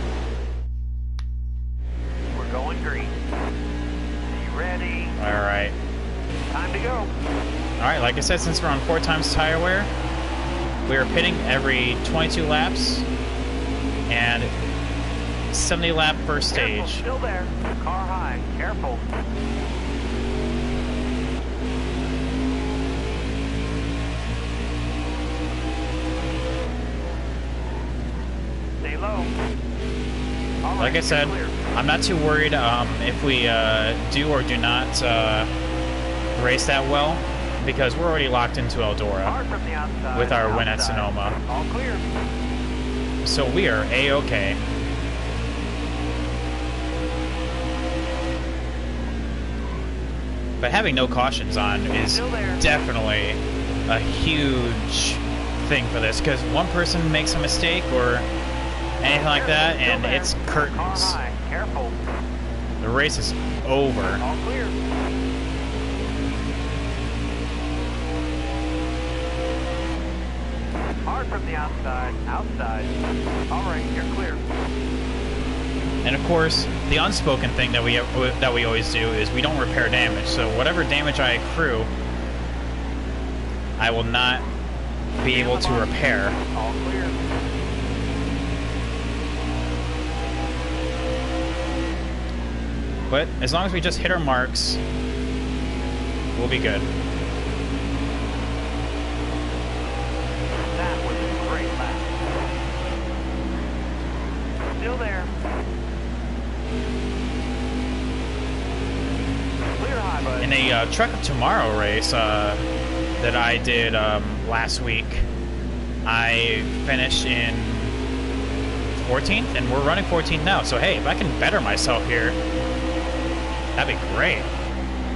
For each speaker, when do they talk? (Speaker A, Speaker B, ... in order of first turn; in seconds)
Speaker A: 2.3-3.1, 4.2-5.2, 6.5-7.1, 16.5-19.1, 28.8-29.3, 30.6-31.6, 39.2-42.0, 52.1-52.6, 59.1-62.0, 64.0-64.8, 71.0-73.0, 73.5-74.4, 85.2-87.2, 100.7-102.2, 104.8-105.3, 109.8-110.5
Speaker B: 5.2-5.8, 7.8-9.9, 10.8-13.1, 14.1-14.5, 15.5-17.0, 30.8-35.5, 36.4-39.4, 40.1-41.4, 43.2-44.6, 50.6-58.3, 59.0-61.2, 62.8-64.2, 76.0-81.9, 83.8-84.5, 85.2-86.4, 93.1-94.8, 96.3-96.9, 110.4-112.6, 113.2-115.3, 116.0-118.0, 119.0-122.4, 123.8-124.5